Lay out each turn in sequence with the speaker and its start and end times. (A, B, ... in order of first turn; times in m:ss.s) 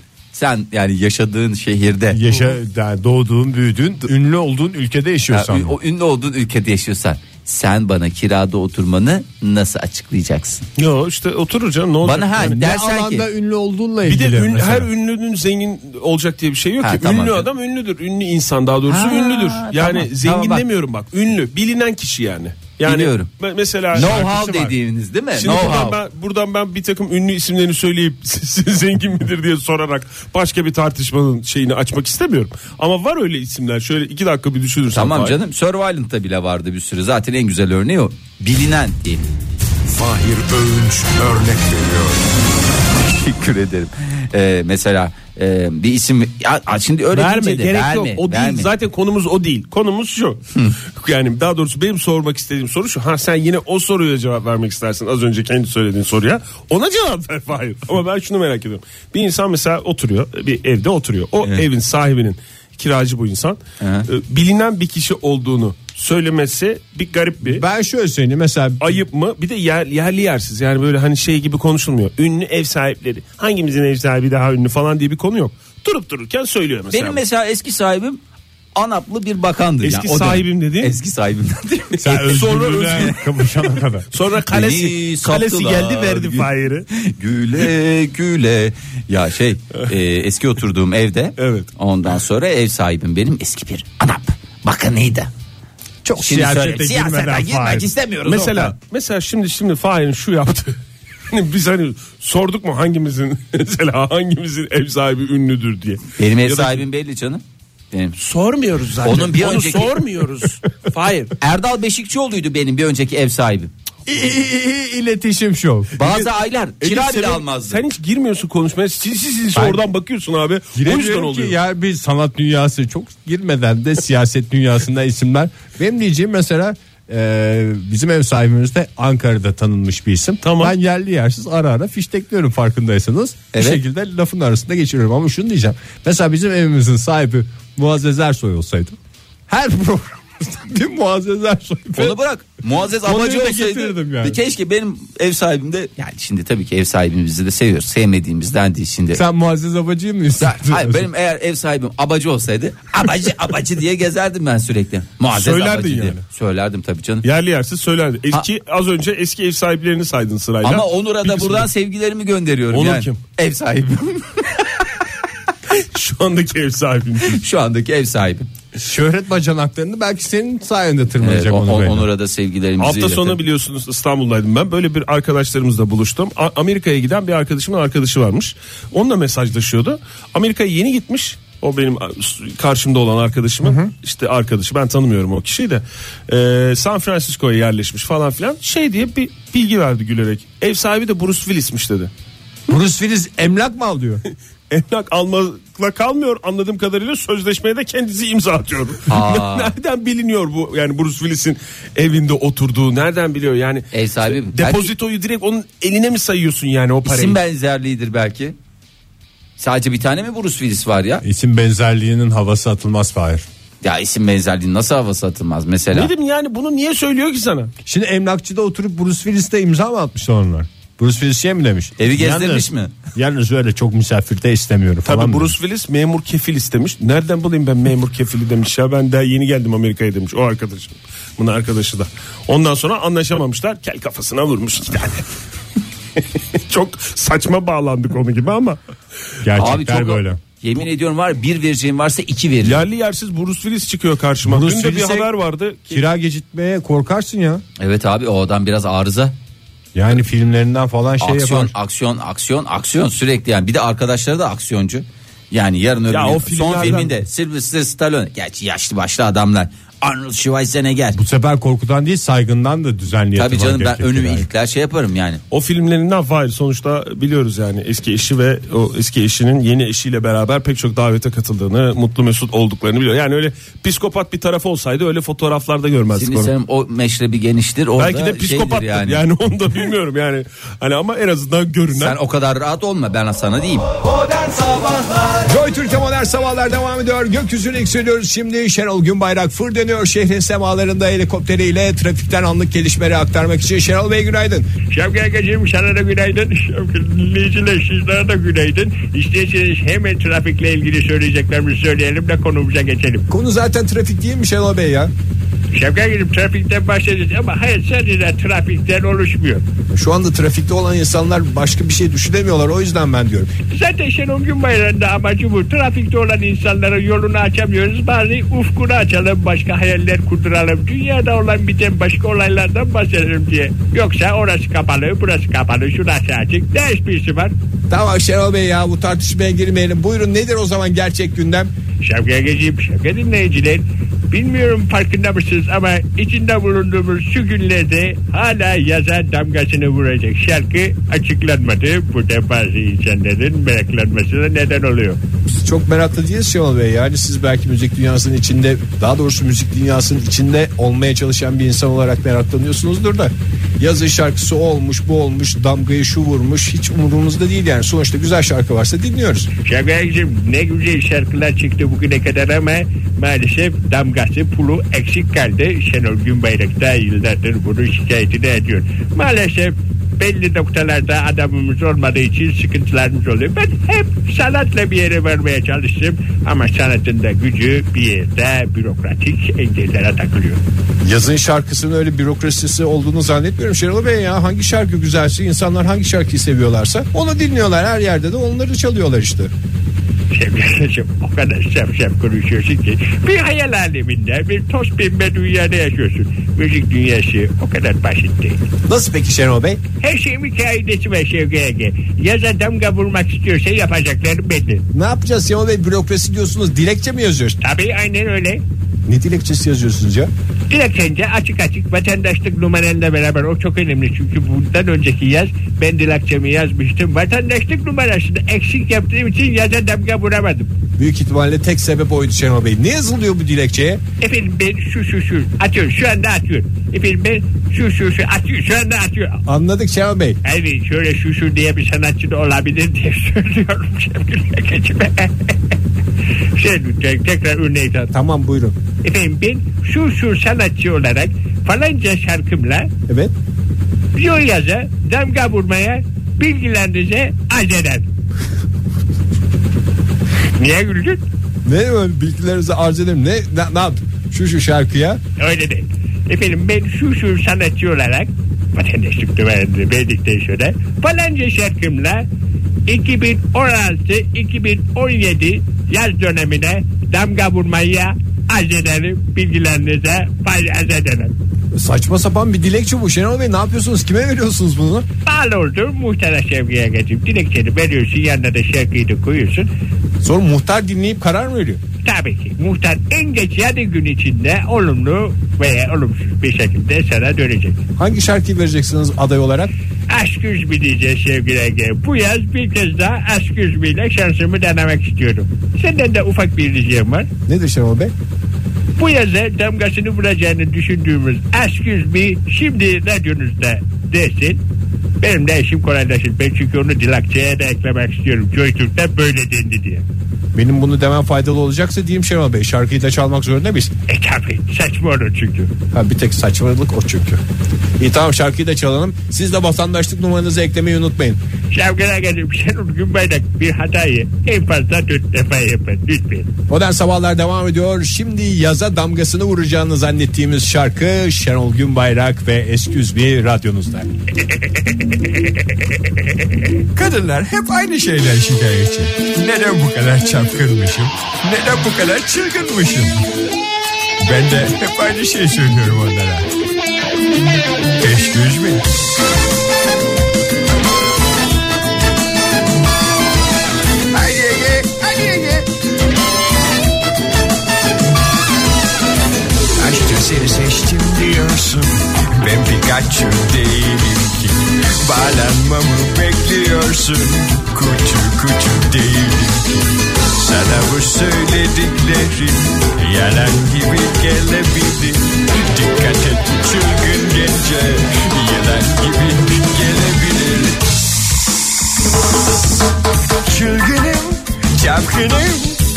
0:00.3-0:02.2 A
0:02.1-0:05.8 B
0:05.3-0:10.7 A
0:10.8-0:12.6 C
0:12.0-0:13.3 A
0:12.4-0:14.9 B
0:14.1-0:24.2 C
0:16.8-0:17.5 A
0:18.9-0:20.6 A
0:22.8-0:23.3 A
0:23.9-0:26.0 A
0:23.9-0:24.8 B
0:25.4-0:35.4 C
0:34.9-0:39.3 A
0:39.9-0:42.2 D
0:43.0-0:48.7 A
0:47.1-1:07.6 C
1:03.8-1:04.1 A
1:07.4-1:09.0 B
1:08.8-1:17.2 C
1:16.9-1:18.2 A
1:18.8-1:23.1 A
1:19.8-1:20.9 C
1:22.0-1:24.1 B
1:22.1-1:23.2 C
1:24.1-1:26.9 C
1:24.5-1:35.3 A
1:31.4-1:31.7 C
1:36.0-1:37.9 B
1:36.2-1:38.8 A
1:38.2-1:40.8 C
1:41.3-1:46.8 C
1:46.2-1:48.2 A
1:48.2-1:51.3 C
1:49.0-1:50.1 A
1:51.4-1:53.7 A
1:54.1-1:56.2 B
1:56.0-1:57.8 A
1:56.8-2:01.6 C
1:59.6-1:59.8 B
2:00.7-2:19.0 B
2:10.4-2:10.7 C
2:13.5-2:13.8 A
2:19.5-2:22.2 B
2:22.0-2:29.2 A
2:23.0-2:24.4 B
2:29.1-2:31.1 B
2:30.4-2:37.3 A
2:35.3-2:36.2 C
2:37.2-2:41.7 C
2:40.6-2:44.9 A
2:42.7-2:43.2 C
2:45.7-2:47.4 C
2:47.2-2:48.5 A
2:48.8-2:52.1 B
2:51.2-2:53.4 A
2:52.8-3:12.1 C
3:03.6-3:03.9 B
3:12.7-3:14.2 B
3:14.7-3:27.4 C
3:19.1-3:19.7 A
3:23.9-3:24.9 A
3:27.0-3:28.6 A
3:29.6-3:31.2 A
3:31.2-3:33.4 B
3:33.8-3:36.1 A
3:35.9-3:37.7 C
3:37.8-3:45.6 B
3:42.0-3:42.9 A
3:45.1-3:55.3 C
3:56.2-3:58.8 C
3:59.4-4:00.4 B
3:59.6-4:02.8 A
4:02.6-4:06.0 C
4:04.4-4:05.3 B
4:05.9-4:07.6 B
4:07.8-4:09.3 A
4:09.9-4:11.7 B
4:11.2-4:21.2 A
4:16.1-4:17.1 C
4:21.2-4:24.5 B
4:23.4-4:25.4 A
4:25.5-4:36.5 C
4:36.1-4:39.2 A
4:38.0-4:42.2 C
4:41.9-4:43.9 A
4:44.6-4:45.3 D
4:45.4-4:54.7 B
4:54.9-5:03.3 E
5:03.3-5:05.1 B
5:05.7-5:09.6 E
5:09.9-5:13.5 B
5:13.7-5:27.5 E
5:27.9-5:31.7 B
5:32.0-5:45.2 E
5:45.5-5:59.5 B
5:59.6-6:20.6 E
6:21.0-6:29.5 B
6:30.3-6:38.6 E
6:38.9-6:39.8 B
6:40.0-6:44.8 E
6:44.9-6:47.6 B
6:47.6-6:48.6 E
6:49.1-6:50.3 B
6:50.7-7:00.7 E
7:01.0-7:04.0 B
7:04.2-7:09.4 E
7:09.5-7:10.4 B
7:10.4-7:15.5 E
7:16.5-7:18.1 E
7:18.1-7:18.8 B
7:19.0-7:22.9 E
7:23.1-7:23.3 B
7:24.1-7:28.1 E
7:30.6-7:31.2 E
7:31.6-7:35.2 B
7:35.4-7:42.3 E
7:42.9-7:51.3 E
7:51.7-7:55.1 B
7:55.2-7:59.7 E
8:00.2-8:01.8 B
8:02.0-8:07.8 E
8:08.0-8:09.7 B
8:10.1-8:17.3 E
8:17.5-8:18.1 B
8:19.0-8:24.6 E
8:25.2-8:30.0 E
8:30.6-8:33.9 B
8:34.1-8:35.7 E
8:35.9-8:37.4 B
8:38.0-8:41.4 B
8:41.7-8:46.5 E
8:46.7-8:54.1 B
8:57.0-9:03.1 D
9:04.2-9:06.4 D
9:08.0-9:08.8 D
9:14.1-9:15.7 D
9:19.8-9:40.8 D
9:43.5-9:45.8 D